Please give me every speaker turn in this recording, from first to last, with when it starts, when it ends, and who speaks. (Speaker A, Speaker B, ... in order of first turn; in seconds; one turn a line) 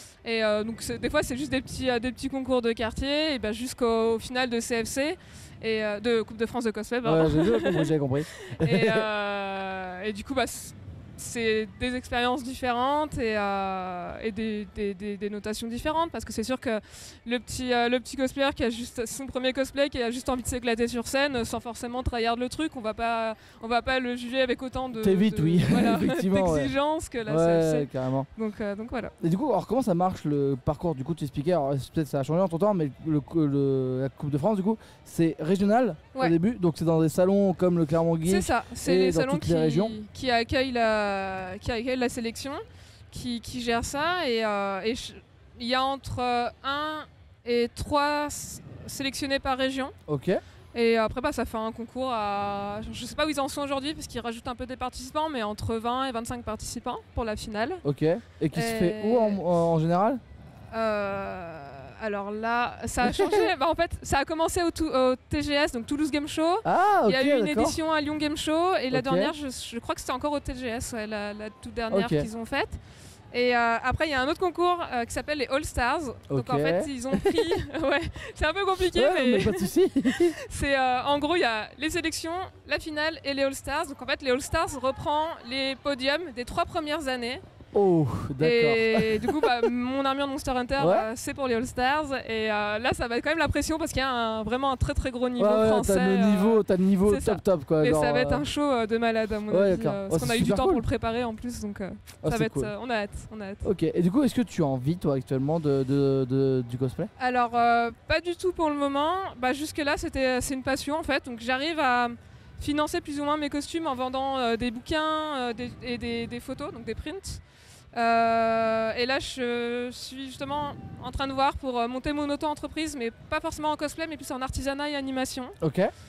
Speaker A: 0.2-29.1
Speaker B: 7.0-9.1
Speaker B: 24.9-28.3
Speaker B: 29.2-40.0
Speaker A: 38.2-49.9
Speaker B: 50.1-50.4
Speaker A: 50.7-57.8
Speaker B: 57.8-60.2
Speaker A: 58.5-59.4
Speaker A: 60.7-72.8
Speaker B: 63.0-63.5
Speaker B: 66.7-67.8
Speaker B: 68.9-69.3
Speaker B: 71.9-72.3
Speaker A: 73.3-87.4
Speaker B: 76.3-77.6
Speaker B: 78.9-80.4
Speaker B: 87.7-89.7
Speaker A: 88.4-103.7
Speaker B: 90.8-91.1
Speaker B: 95.4-98.5
Speaker B: 99.5-100.8
Speaker B: 102.2-102.7
Speaker B: 103.6-107.1
Speaker A: 107.2-117.4
Speaker A: 117.9-125.5
Speaker B: 125.6-125.9